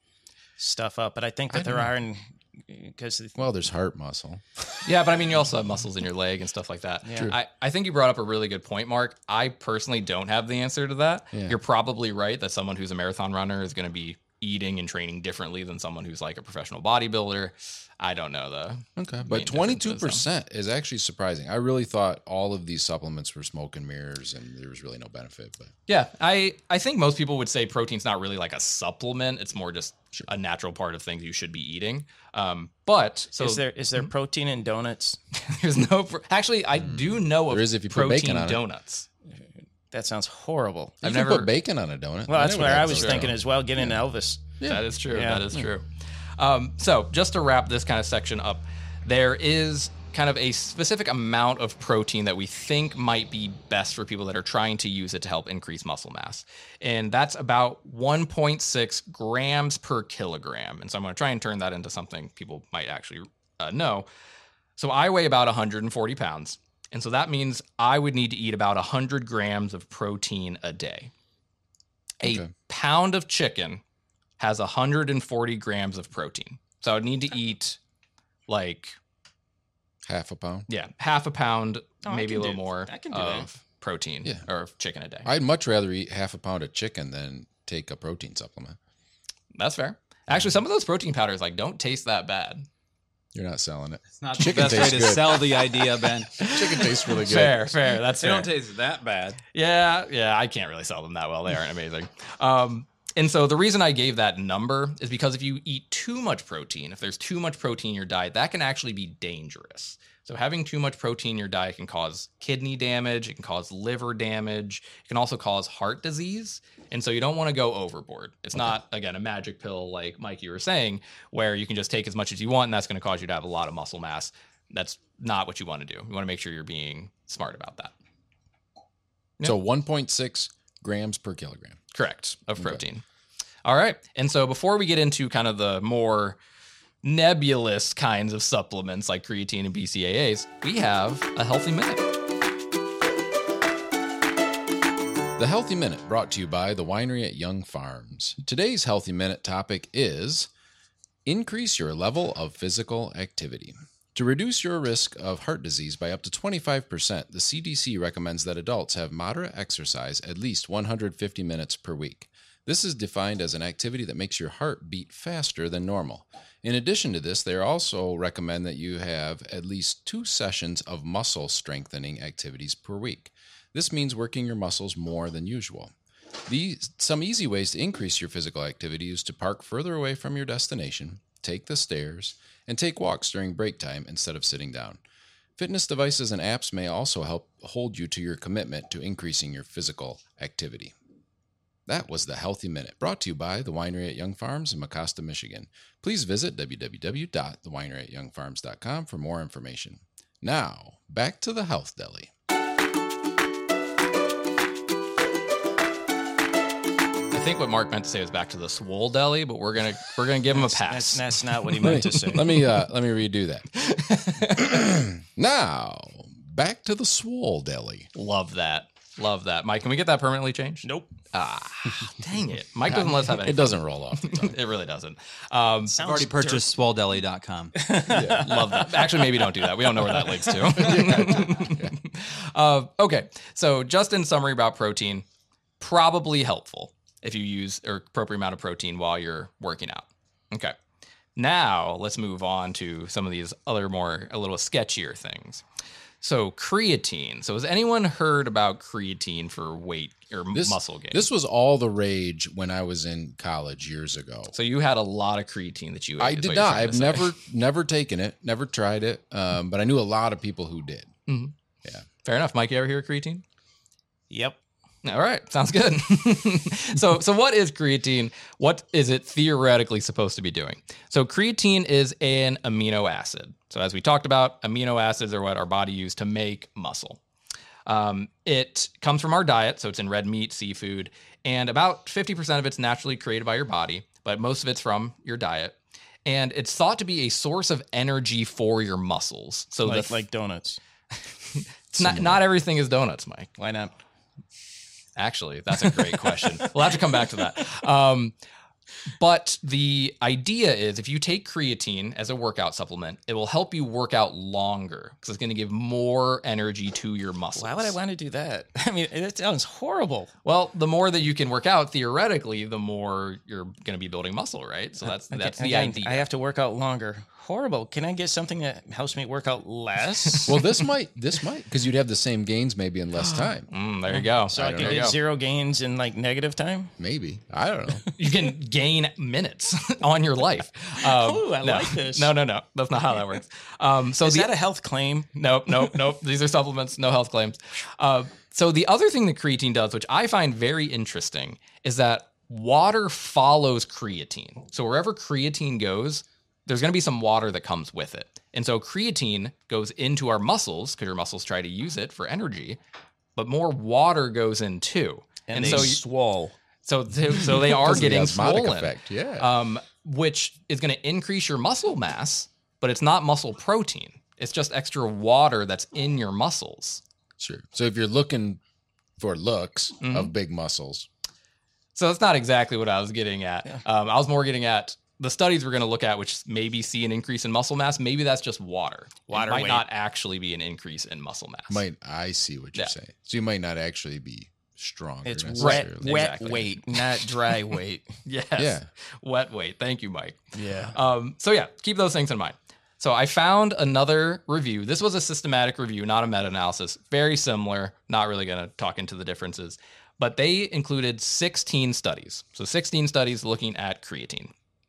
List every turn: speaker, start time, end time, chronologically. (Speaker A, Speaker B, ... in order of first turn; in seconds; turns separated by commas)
Speaker A: 0.6-3.4, Speaker B: 1.5-1.9, Speaker B: 3.4-4.8, Speaker C: 4.8-20.2, Speaker A: 7.0-7.3, Speaker B: 11.3-11.6, Speaker B: 19.0-25.7, Speaker C: 25.9-34.1, Speaker A: 33.4-35.2, Speaker C: 35.3-39.1, Speaker B: 36.8-38.6, Speaker A: 39.9-41.0, Speaker B: 41.0-44.0, Speaker C: 41.0-41.5, Speaker A: 42.3-44.5, Speaker C: 42.8-43.3, Speaker B: 44.6-44.9, Speaker C: 44.7-64.1, Speaker A: 45.1-45.5, Speaker C: 64.8-71.1, Speaker C: 72.2-73.8, Speaker B: 72.2-72.5, Speaker C: 74.4-77.8, Speaker C: 78.5-79.0, Speaker B: 80.0-80.7, Speaker C: 80.7-85.3, Speaker A: 82.0-83.5, Speaker B: 85.2-88.8, Speaker C: 89.5-92.7, Speaker B: 90.3-90.5, Speaker B: 93.3-95.7, Speaker D: 94.2-96.4, Speaker C: 96.4-98.5, Speaker B: 96.4-97.8, Speaker D: 98.2-99.4, Speaker C: 99.5-127.9, Speaker B: 129.4-131.8, Speaker C: 131.9-133.0, Speaker C: 133.7-136.4, Speaker C: 137.0-142.1, Speaker B: 145.4-150.5, Speaker B: 151.3-175.9, Speaker B: 176.5-185.0, Speaker B: 185.6-190.9, Speaker B: 191.9-202.3, Speaker C: 207.3-211.3, Speaker A: 210.5-212.5, Speaker B: 211.8-213.7, Speaker C: 213.8-214.7, Speaker B: 214.6-218.1, Speaker C: 218.1-225.9, Speaker A: 220.8-221.1, Speaker B: 222.9-224.6, Speaker A: 225.9-226.7, Speaker D: 226.0-228.2, Speaker A: 227.8-229.3, Speaker B: 228.1-228.5, Speaker C: 228.4-235.2, Speaker A: 230.0-231.3, Speaker B: 230.8-231.9, Speaker C: 235.8-240.8, Speaker C: 241.4-245.6, Speaker C: 246.2-251.3, Speaker B: 250.5-254.5, Speaker C: 254.5-257.3, Speaker B: 256.2-261.1, Speaker C: 261.3-261.5, Speaker C: 262.2-263.4, Speaker A: 264.3-264.6, Speaker C: 265.0-277.2, Speaker C: 277.9-290.2, Speaker A: 289.9-290.8, Speaker C: 291.6-293.5, Speaker B: 292.0-292.4, Speaker A: 293.6-293.9, Speaker C: 295.2-298.4, Speaker C: 299.2-308.0, Speaker A: 307.6-310.3, Speaker C: 310.4-316.3, Speaker A: 315.3-320.8, Speaker B: 320.5-323.7, Speaker C: 323.7-325.2, Speaker A: 324.1-326.9, Speaker B: 324.6-325.1, Speaker B: 327.0-328.1, Speaker C: 328.2-334.5, Speaker A: 331.0-332.3, Speaker A: 334.2-335.9, Speaker C: 335.4-352.8, Speaker C: 353.4-356.0, Speaker A: 355.5-356.6, Speaker B: 355.6-355.9, Speaker C: 356.8-367.0, Speaker B: 357.3-359.5, Speaker B: 367.4-368.6, Speaker B: 369.2-371.1, Speaker C: 370.0-370.3, Speaker C: 371.9-381.8, Speaker A: 379.3-379.9, Speaker B: 381.7-386.6, Speaker A: 385.2-388.1, Speaker C: 385.6-386.8, Speaker C: 388.2-404.5, Speaker B: 388.6-388.9, Speaker A: 390.6-390.9